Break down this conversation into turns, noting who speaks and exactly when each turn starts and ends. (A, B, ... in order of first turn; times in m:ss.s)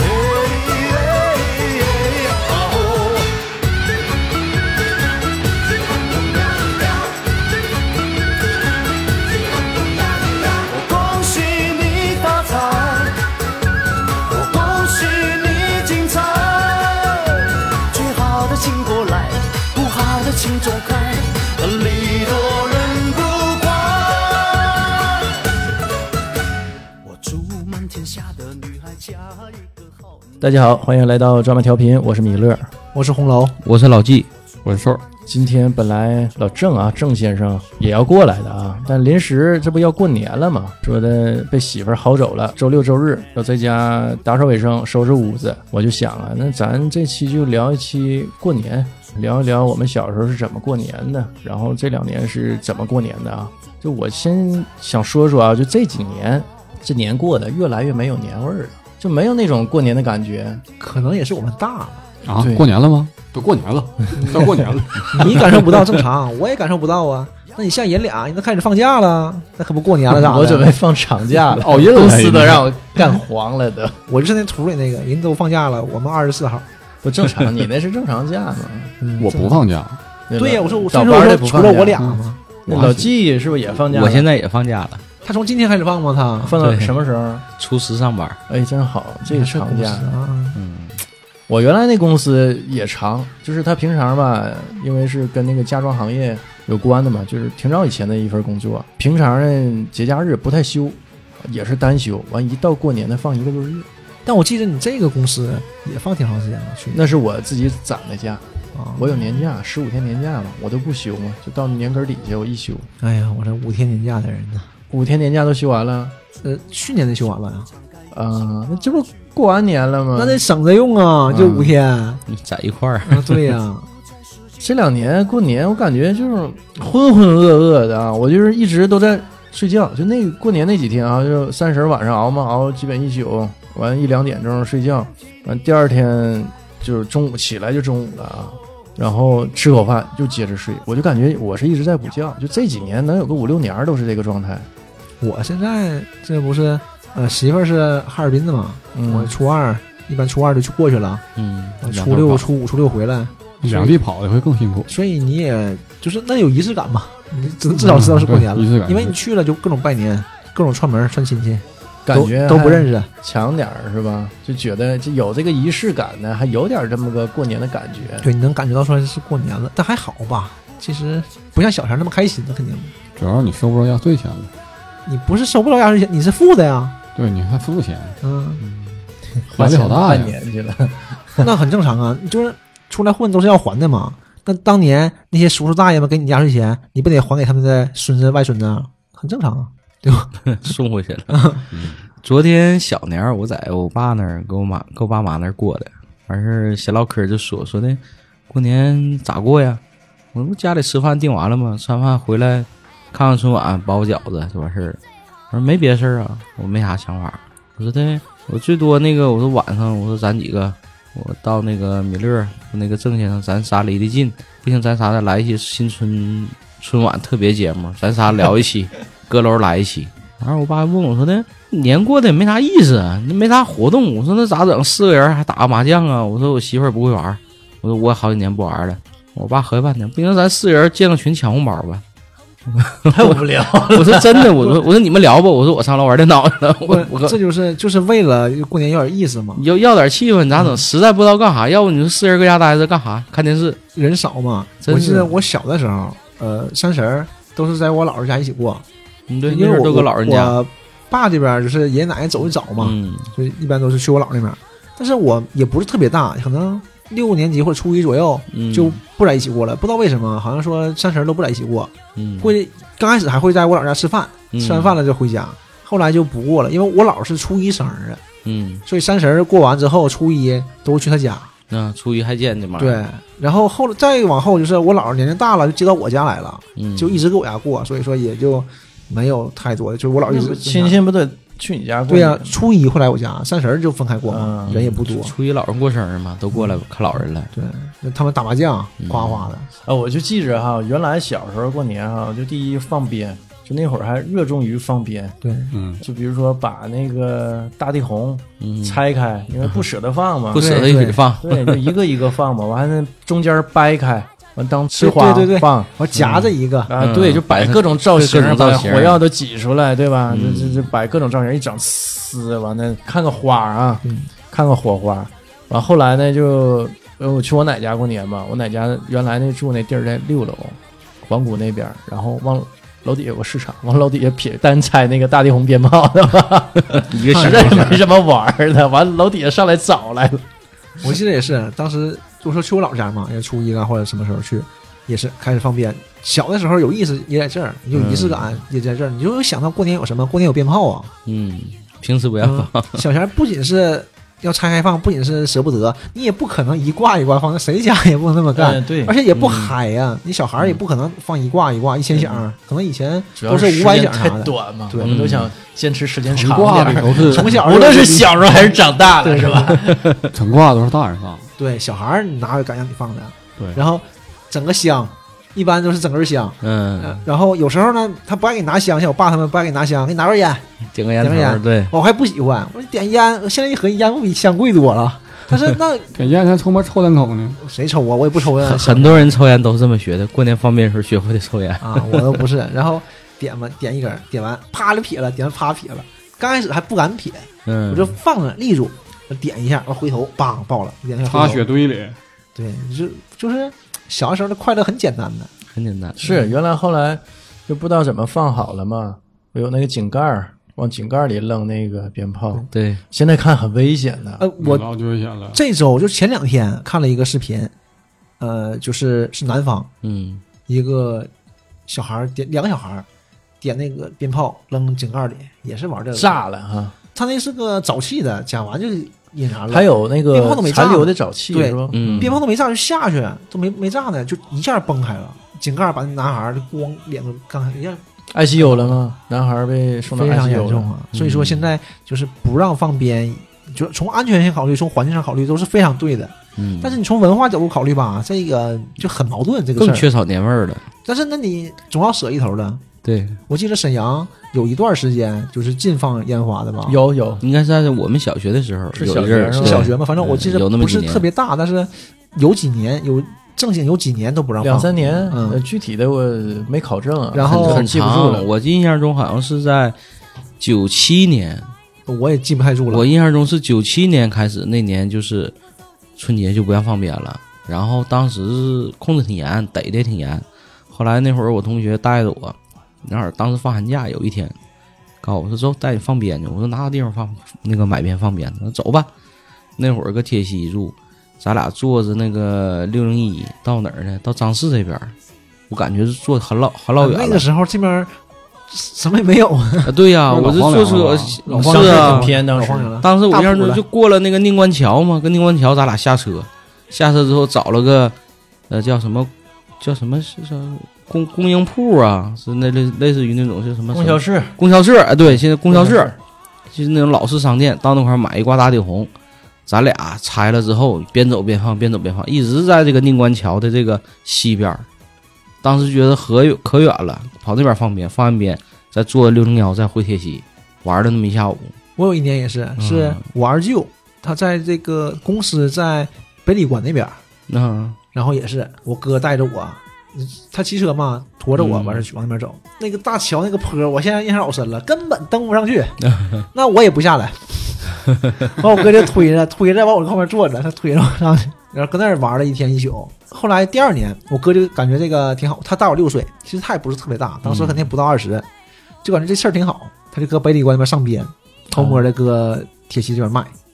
0:00.2-0:03.4 A
0:10.4-0:13.2 A
0:14.3-0:25.1 A
0:27.1-0:29.2 A
0:30.4-0:32.7 B
0:32.9-0:33.6 C
0:33.6-0:34.3 D
0:34.6-0:35.0 E
0:35.2-1:00.6 B
1:00.8-1:02.0 C
1:02.2-1:05.6 E
1:02.4-1:02.6 B
1:04.1-1:04.5 C
1:05.1-1:10.7 C
1:10.1-1:14.0 B
1:11.5-1:12.7 E
1:14.1-1:16.7 C
1:17.0-1:18.9 B
1:19.0-1:19.6 C
1:19.2-1:20.0 E
1:20.3-1:22.0 B
1:20.4-1:22.4 C
1:22.0-1:23.1 E
1:22.6-1:24.3 B
1:23.9-1:25.0 D
1:25.2-1:26.6 C
1:26.4-1:27.4 B
1:26.6-1:26.9 D
1:27.6-1:28.4 D
1:28.5-1:30.1 B
1:29.3-1:30.6 C
1:30.5-1:31.0 D
1:31.5-1:43.9 B
1:44.2-1:47.2 C
1:46.9-1:52.9 B
1:48.7-1:49.2 C
1:53.0-1:54.7 C
1:54.9-1:56.1 B
1:56.4-1:57.7 C
1:58.1-2:00.4 B
2:00.1-2:02.2 C
2:01.3-2:01.7 B
2:02.3-2:03.5 D
2:03.1-2:03.9 C
2:04.6-2:24.7 B
2:25.2-2:31.2 C
2:28.9-2:29.3 B
2:31.3-2:32.4 D
2:31.8-2:34.0 C
2:33.6-2:34.9 E
2:34.9-2:43.1 C
2:37.7-2:39.1 E
2:42.0-2:48.2 B
2:48.2-2:52.9 C
2:53.2-2:54.5 E
2:55.0-2:56.9 C
2:57.1-2:58.2 E
2:58.2-2:58.6 C
2:59.5-3:01.5 B
2:59.5-3:00.4 E
3:01.4-3:10.3 C
3:10.4-3:11.5 D
3:11.3-3:11.6 C
3:11.7-3:12.0 E
3:12.2-3:19.8 D
3:20.3-3:25.0 D
3:25.5-3:52.0 D
3:52.7-3:57.4 D
3:53.1-3:54.5 B
3:56.8-3:59.6 C
3:59.6-4:03.8 D
4:00.5-4:00.8 C
4:03.9-4:08.8 C
4:04.8-4:05.3 D
4:09.3-4:10.6 D
4:09.5-4:28.2 C
4:12.8-4:13.3 D
4:18.5-4:19.0 D
4:22.2-4:22.5 D
4:24.5-4:25.0 D
4:28.4-4:28.8 D
4:28.8-4:31.5 C
4:31.7-4:33.0 D
4:32.8-4:41.0 C
4:36.8-4:37.2 D
4:40.2-4:42.6 B
4:42.1-4:45.3 C
4:44.3-4:44.8 B
4:44.7-4:47.5 D
4:46.5-4:46.8 C
4:47.5-4:49.7 C
4:49.0-4:49.5 D
4:49.8-4:55.4 B
4:55.4-4:55.7 C
4:55.7-4:56.0 E
4:56.0-5:00.8 B
4:58.6-4:59.0 D
5:00.5-5:01.9 D
5:00.5-5:01.2 C
5:01.3-5:05.9 B
5:05.0-5:06.9 C
5:06.2-5:06.4 D
5:06.9-5:30.4 B
5:07.0-5:09.2 D
5:10.3-5:10.9 D
5:14.0-5:14.3 C
5:26.9-5:28.0 D
5:27.3-5:28.0 C
5:31.0-5:41.1 C
5:37.9-5:38.5 D
5:41.2-5:43.0 D
5:42.4-5:55.2 C
5:48.5-5:49.1 B
5:49.3-5:49.7 D
5:53.4-6:00.1 B
5:55.0-5:55.5 D
5:56.2-5:57.6 E
5:57.0-5:58.6 C
5:59.2-5:59.8 C
5:59.8-6:00.3 D
6:00.3-6:01.5 E
6:01.6-6:10.7 C
6:06.6-6:07.2 D
6:10.9-6:11.9 D
6:11.2-6:16.1 C
6:16.1-6:17.6 E
6:17.6-6:19.4 C
6:18.4-6:22.4 D
6:21.8-6:31.6 C
6:27.6-6:28.2 D
6:31.2-6:32.2 E
6:32.6-6:35.5 C
6:35.7-6:36.2 D
6:36.2-6:44.4 B
6:36.2-6:36.5 C
6:42.7-6:43.0 D
6:44.4-6:44.9 C
6:44.6-6:45.6 E
6:45.5-6:47.7 C
6:48.4-6:49.9 C
6:50.0-6:50.4 D
6:50.7-6:51.3 C
6:51.9-6:53.0 C
6:53.6-6:56.4 C
6:56.1-6:56.9 B
6:57.1-7:08.0 C
6:59.7-7:02.4 B
7:01.9-7:02.4 D
7:08.3-7:10.9 B
7:08.6-7:08.9 C
7:10.1-7:20.1 C
7:11.1-7:11.7 D
7:16.6-7:17.0 D
7:19.8-7:20.9 D
7:21.0-7:22.8 C
7:23.0-7:23.4 D
7:23.5-7:27.0 C
7:26.8-7:27.4 B
7:27.4-7:31.3 D
7:28.9-7:29.9 B
7:29.6-7:35.6 C
7:34.6-7:38.5 B
7:37.3-7:37.8 C
7:37.4-7:40.0 D
7:40.6-7:41.7 D
7:42.1-7:43.1 C
7:42.9-7:45.5 D
7:46.2-7:54.5 D
7:55.2-7:59.1 D
7:59.8-8:05.1 D
8:05.7-8:07.4 D
8:07.0-8:08.2 C
8:08.7-8:09.9 C
8:09.8-8:12.3 D
8:10.3-8:12.2 E
8:11.4-8:13.8 C
8:11.6-8:12.9 B
8:13.0-8:18.2 D
8:18.7-8:26.1 D
8:23.9-8:24.6 B
8:25.2-8:26.2 B
8:26.7-8:29.1 D
8:29.7-8:34.8 D
8:35.6-8:41.7 D
8:42.0-8:47.2 C
8:42.8-8:43.2 D
8:47.5-8:48.0 D
8:48.1-8:56.0 C
8:51.6-8:52.0 D
8:56.0-8:56.4 D
8:56.5-9:08.4 C
9:07.4-9:07.9 D
9:09.0-9:13.5 C